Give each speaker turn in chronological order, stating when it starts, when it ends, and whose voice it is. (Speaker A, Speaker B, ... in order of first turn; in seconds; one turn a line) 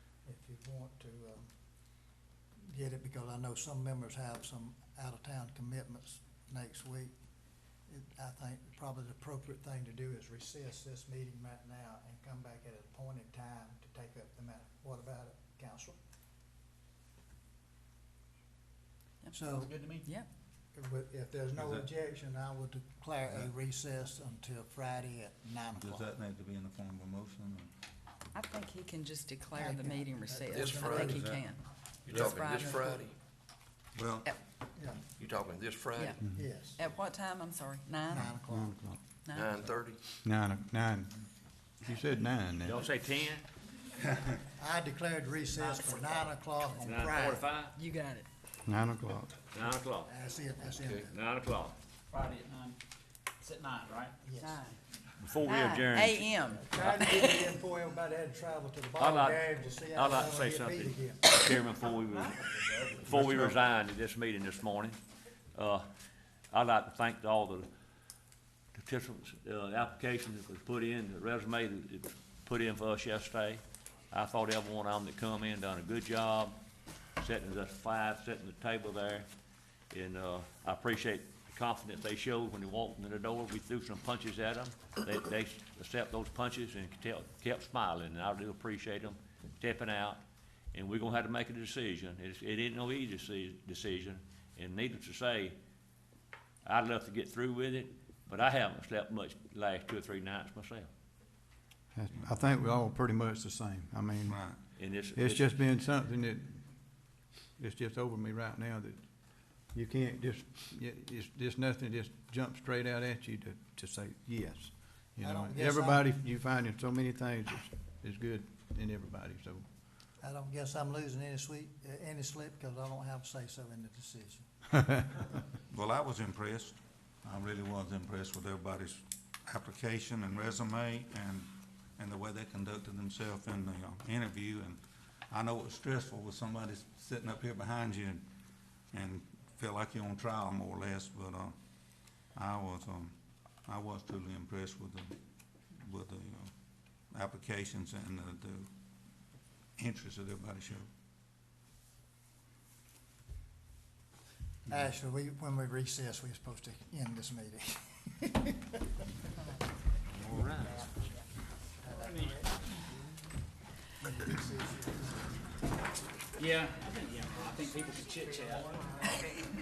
Speaker A: 0.2-1.5
Speaker A: 2.6-7.1
Speaker A: 7.9-16.0
Speaker A: 19.3-19.8
Speaker B: 19.6-20.1
Speaker A: 20.7-26.1
Speaker C: 21.5-21.9
Speaker C: 25.7-27.7
Speaker D: 28.3-32.8
Speaker A: 29.5-31.4
Speaker E: 30.5-31.2
Speaker C: 30.9-31.4
Speaker E: 32.1-33.1
Speaker A: 32.5-33.0
Speaker C: 34.0-34.3
Speaker A: 34.8-35.0
Speaker E: 35.2-36.2
Speaker D: 36.0-38.4
Speaker A: 36.2-36.8
Speaker A: 38.1-38.8
Speaker F: 38.1-39.0
Speaker D: 39.2-39.5
Speaker E: 39.3-40.0
Speaker F: 40.2-41.3
Speaker F: 41.8-42.8
Speaker G: 42.6-43.4
Speaker A: 44.6-47.5
Speaker G: 46.7-47.7
Speaker D: 47.8-48.3
Speaker F: 48.6-49.3
Speaker G: 49.5-50.1
Speaker A: 50.0-51.1
Speaker E: 50.8-51.1
Speaker G: 51.1-51.7
Speaker B: 52.1-52.8
Speaker B: 53.4-54.1
Speaker A: 54.2-54.7
Speaker D: 54.4-54.8
Speaker G: 55.2-56.9
Speaker D: 55.4-57.5
Speaker A: 56.5-61.3
Speaker G: 59.0-65.0
Speaker C: 62.9-63.5
Speaker G: 65.5-65.9
Speaker G: 66.5-67.7
Speaker G: 68.8-76.6
Speaker G: 77.2-79.3
Speaker G: 79.9-90.2
Speaker G: 90.7-95.6
Speaker G: 96.6-100.9
Speaker F: 101.9-104.4
Speaker C: 104.2-104.6
Speaker G: 104.8-105.6
Speaker F: 105.2-106.7
Speaker F: 107.6-109.0
Speaker F: 109.7-119.7
Speaker A: 115.2-116.1
Speaker A: 120.2-124.5
Speaker C: 125.7-138.3
Speaker C: 138.9-141.6
Speaker C: 142.3-145.2
Speaker C: 145.7-146.5
Speaker C: 147.1-148.7
Speaker C: 149.8-150.9
Speaker A: 154.7-158.7
Speaker G: 160.1-160.9
Speaker A: 161.8-162.5
Speaker A: 164.0-165.2
Speaker B: 166.4-169.1